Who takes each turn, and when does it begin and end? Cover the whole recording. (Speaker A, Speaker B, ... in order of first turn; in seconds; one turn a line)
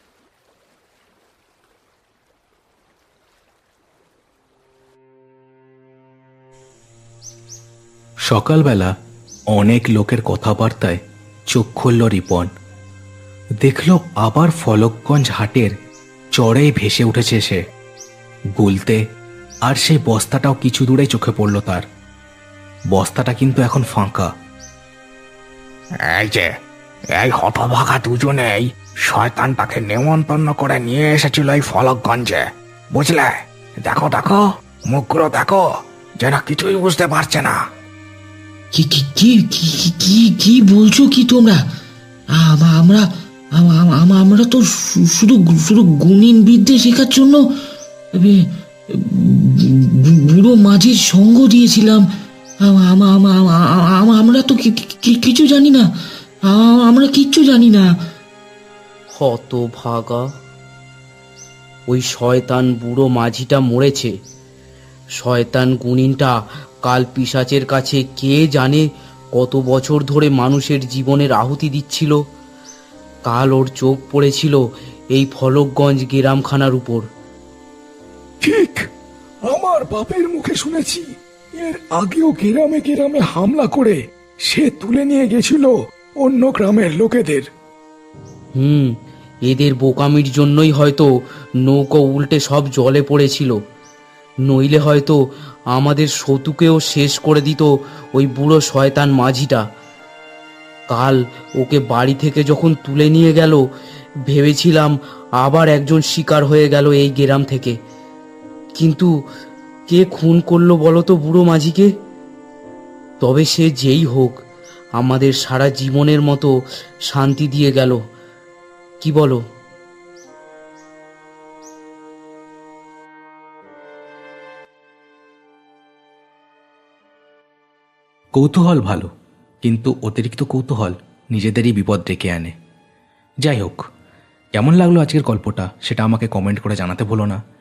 Speaker A: 8.2-8.9
Speaker A: 9.5-11.0
Speaker A: 11.5-12.5
Speaker A: 13.6-15.7
Speaker A: 16.4-17.6
Speaker A: 18.6-19.0
Speaker A: 19.6-21.8
Speaker A: 22.9-24.3
Speaker B: 26.1-26.5
Speaker B: 27.2-35.6
Speaker B: 36.2-37.6
Speaker C: 38.7-41.6
Speaker C: 42.3-47.4
Speaker C: 48.1-52.0
Speaker C: 52.6-55.9
Speaker C: 56.5-57.9
Speaker D: 59.1-60.3
Speaker D: 61.9-64.1
Speaker D: 65.2-72.2
Speaker D: 73.2-74.6
Speaker D: 75.1-77.0
Speaker A: 79.5-81.0
Speaker E: 79.6-80.2
Speaker E: 81.6-83.9
Speaker A: 81.9-83.8
Speaker E: 84.5-85.7
Speaker A: 84.6-85.6
Speaker E: 86.4-87.4
Speaker A: 86.5-87.4
Speaker D: 88.6-88.9
Speaker D: 89.5-91.1
Speaker D: 91.6-93.6
Speaker D: 94.5-95.2
Speaker D: 95.7-99.6
Speaker D: 100.9-103.6
Speaker D: 104.3-107.8
Speaker D: 108.8-109.1
Speaker D: 109.9-111.9
Speaker D: 113.2-114.4
Speaker D: 115.0-116.5
Speaker D: 117.1-118.0
Speaker D: 119.0-119.4
Speaker A: 128.3-129.1
Speaker A: 129.6-132.5
Speaker A: 133.4-133.8
Speaker A: 134.6-137.4